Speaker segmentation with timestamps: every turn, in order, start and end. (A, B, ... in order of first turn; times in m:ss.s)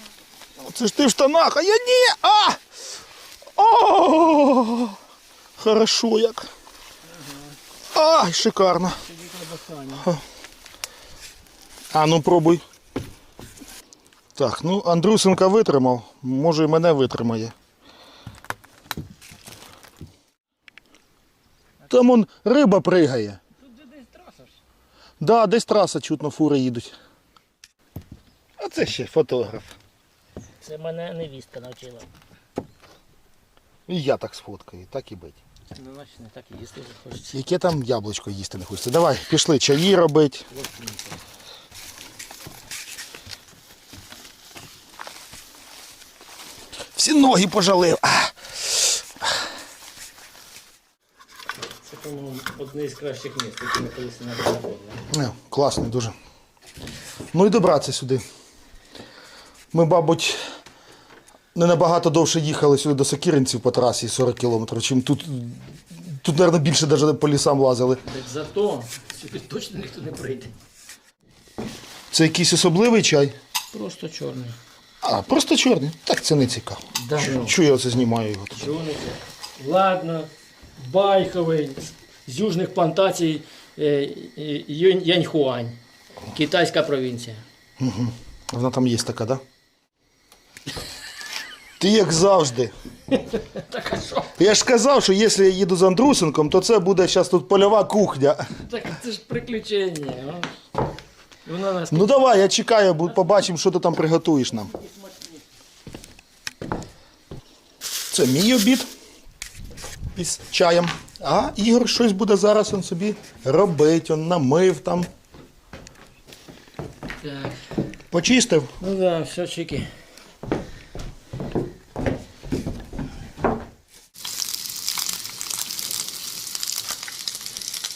0:00.6-0:02.6 A
0:03.6-0:05.0 A
0:05.6-0:06.5 A
0:07.1-0:07.6 B
0:07.9-0:09.0 A
0:09.0-0:10.1 B
0:11.9-0:12.6 A
0:14.4-0:17.5 A
0:21.9-0:23.4 A
0:23.6-0:24.6 B
0:25.2-0:26.9 A
0:28.6-0:29.8 A
0:30.6-0:32.1 B
0:33.9-0:35.4 A
0:35.8-0:37.4 B
0:37.3-0:40.5 A
0:40.5-0:41.2 B
0:47.0-0:49.0 A
0:51.8-0:55.0 B
0:55.1-0:56.2 A
0:57.3-0:58.2 A
0:59.7-1:00.4 A
1:01.6-1:08.0 A
1:08.0-1:10.5 B
1:12.1-1:13.4 A
1:13.7-1:14.6 B
1:15.0-1:18.7 A
1:17.0-1:17.6 B
1:18.5-1:25.8 B
1:26.3-1:27.4 B
1:27.8-1:29.4 A
1:31.8-1:32.7 A
1:33.1-1:34.4 B
1:34.4-1:38.4 A
1:38.6-1:40.5 B
1:41.5-1:42.5 B
1:41.9-1:44.7 A
1:43.2-1:43.4 B
1:44.7-1:45.4 B
1:48.1-1:48.9 A
1:50.2-1:55.1 A
1:57.2-1:57.6 B
1:58.1-1:58.7 A
1:58.8-1:59.9 B